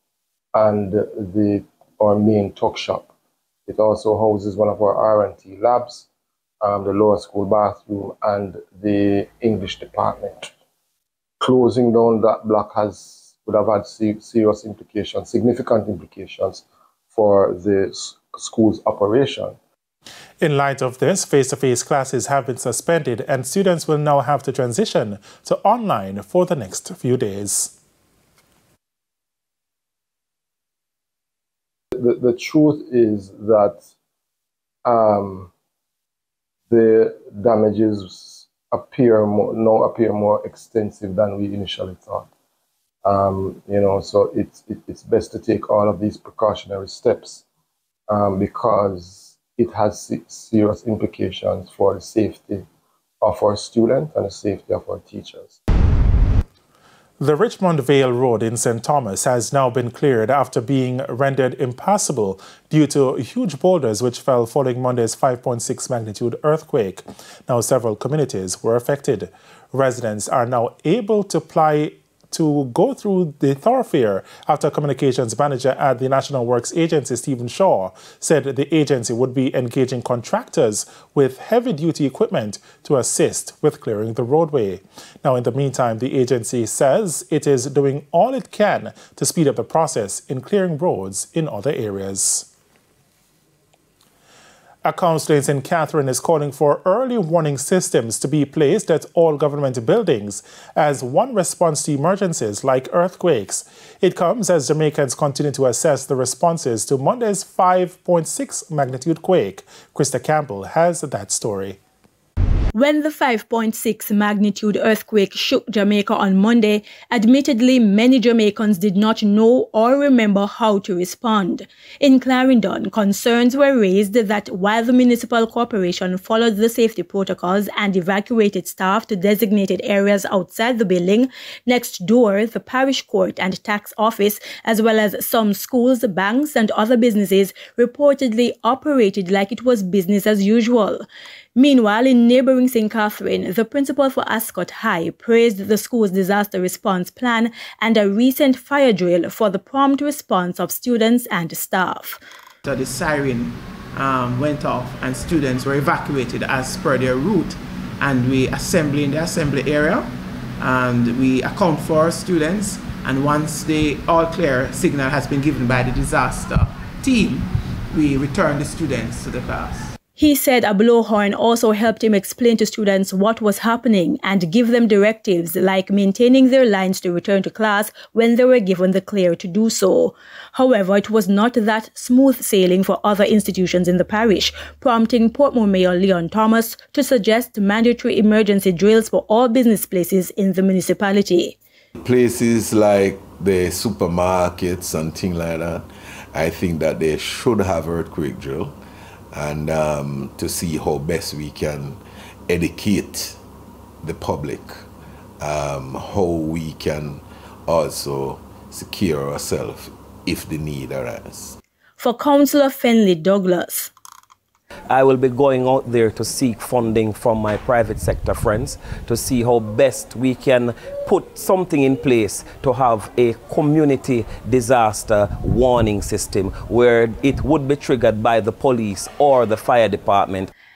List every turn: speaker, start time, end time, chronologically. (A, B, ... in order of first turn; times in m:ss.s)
0:00.5-0:03.1 A
0:03.7-0:06.1 A
0:06.6-0:10.5 A
0:11.4-0:19.5 A
0:20.4-0:27.7 B
0:31.9-0:33.8 A
0:34.8-0:35.5 A
0:36.7-0:42.3 A
0:43.0-0:47.4 A
0:48.1-0:52.6 A
0:53.2-0:55.6 A
0:57.2-1:32.5 B
1:34.8-1:51.8 B
1:52.7-2:32.2 C
2:32.6-2:49.9 D
2:50.2-3:11.6 C
3:12.0-3:18.7 E
3:19.3-3:23.4 E
3:24.0-3:24.8 E
3:25.4-3:31.6 E
3:32.0-3:33.9 C
3:34.9-3:50.5 F